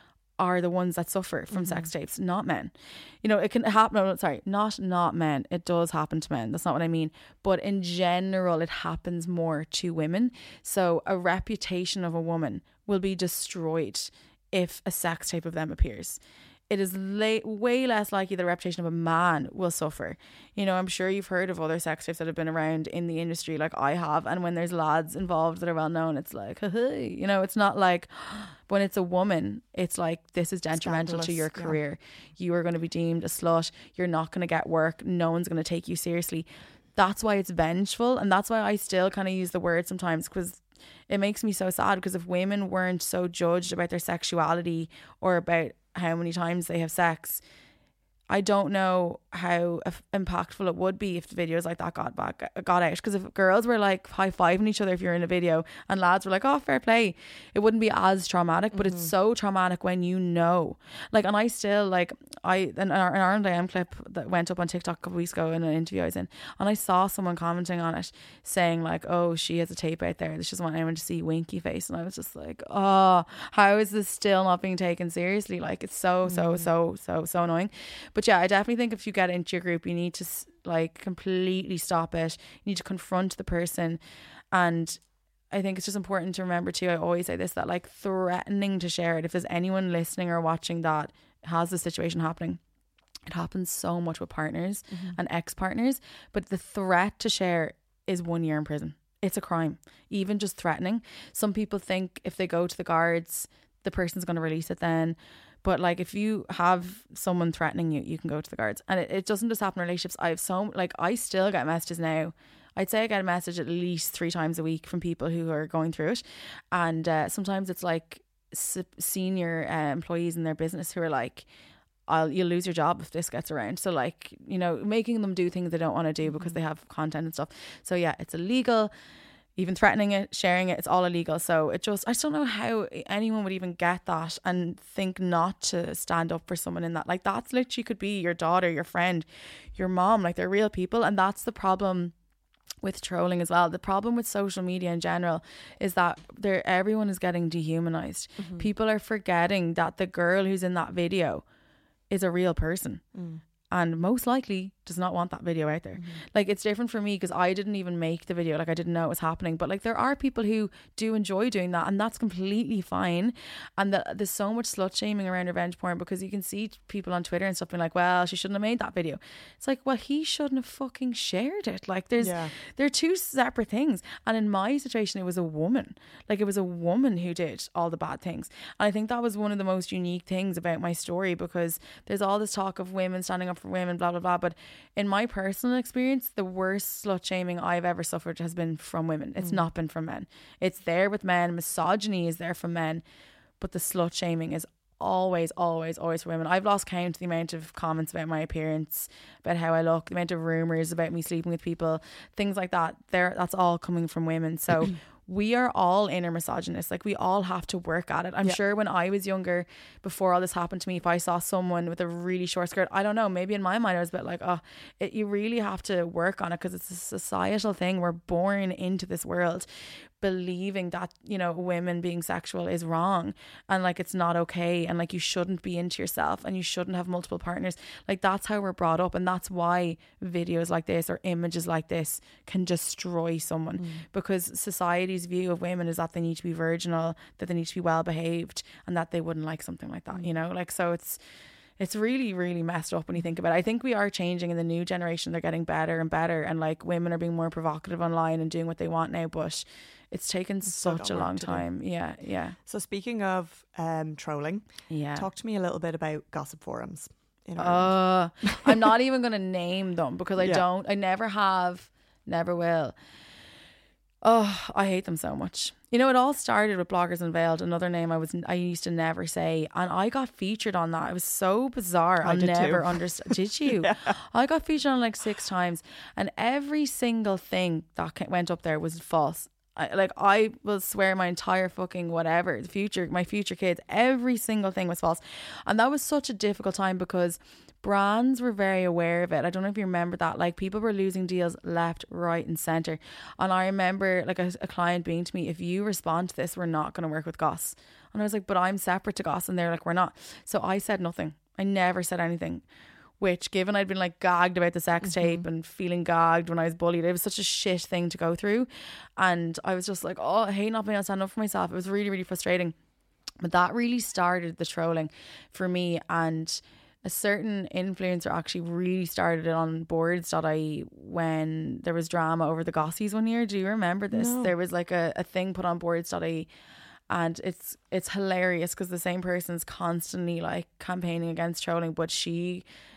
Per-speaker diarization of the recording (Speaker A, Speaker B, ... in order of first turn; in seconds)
Speaker A: 0.4-47.4, 48.3-84.0, 84.5-92.6, 93.3-121.5, 122.1-128.9, 129.6-142.1, 142.8-151.4, 152.1-153.0, 153.7-193.0, 193.6-219.7, 220.2-241.2, 241.8-252.6, 254.9-255.3, 257.6-262.9, 264.2-302.6, 303.2-312.7, 313.4-326.5, 327.1-332.6
Speaker B: 1.5-1.9, 30.8-31.8, 58.7-59.1, 76.2-76.7, 94.9-95.2, 126.2-126.6, 148.4-148.7, 153.1-153.4, 156.0-156.2, 172.2-172.5, 233.8-234.0, 250.6-251.7, 252.6-258.9, 272.2-274.1, 305.0-305.4, 324.1-324.5